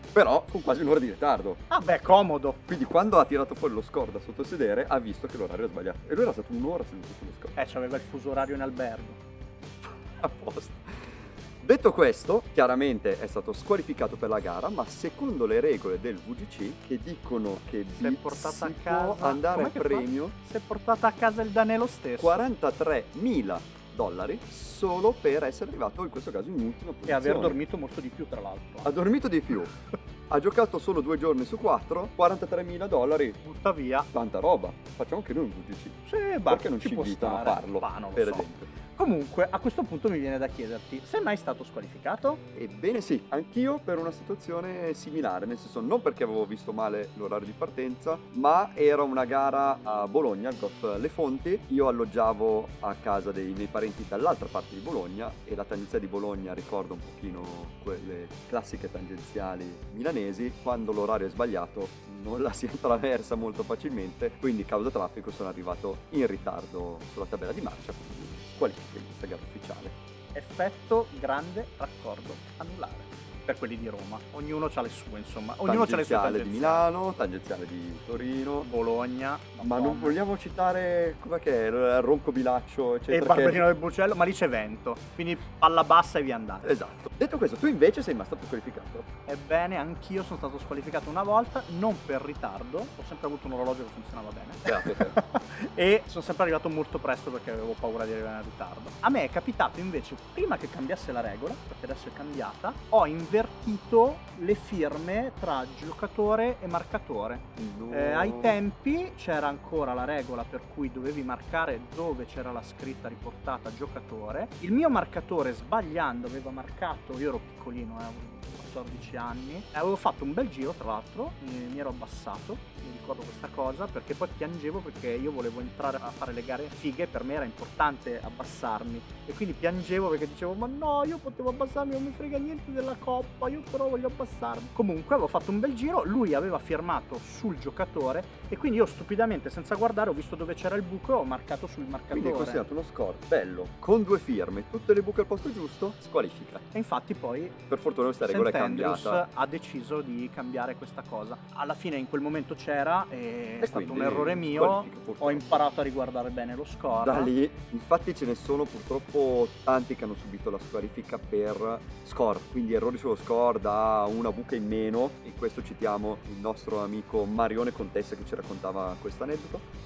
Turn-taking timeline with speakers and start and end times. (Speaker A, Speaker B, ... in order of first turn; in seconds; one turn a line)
Speaker A: 0.1-1.6
Speaker B: 1.7-2.6
Speaker A: 2.7-7.5
Speaker B: 7.6-9.2
Speaker A: 10.1-20.4
Speaker B: 17.9-22.4
Speaker A: 22.2-27.6
Speaker B: 27.1-28.9
Speaker A: 28.8-29.7
Speaker A: 30.3-33.4
Speaker B: 33.4-34.1
Speaker A: 34.1-38.7
Speaker B: 36.1-42.4
Speaker A: 42.5-70.0
Speaker B: 70.3-76.8
Speaker A: 75.7-78.7
Speaker B: 78.6-80.2
Speaker A: 79.6-83.7
Speaker B: 83.1-86.7
Speaker A: 86.6-89.1
Speaker B: 89.3-142.7
Speaker A: 94.7-95.2
Speaker A: 107.6-108.6
Speaker A: 142.1-146.6
Speaker B: 146.7-147.6
Speaker A: 147.7-149.2
Speaker B: 148.2-157.3
Speaker A: 153.6-155.7
Speaker A: 156.9-169.7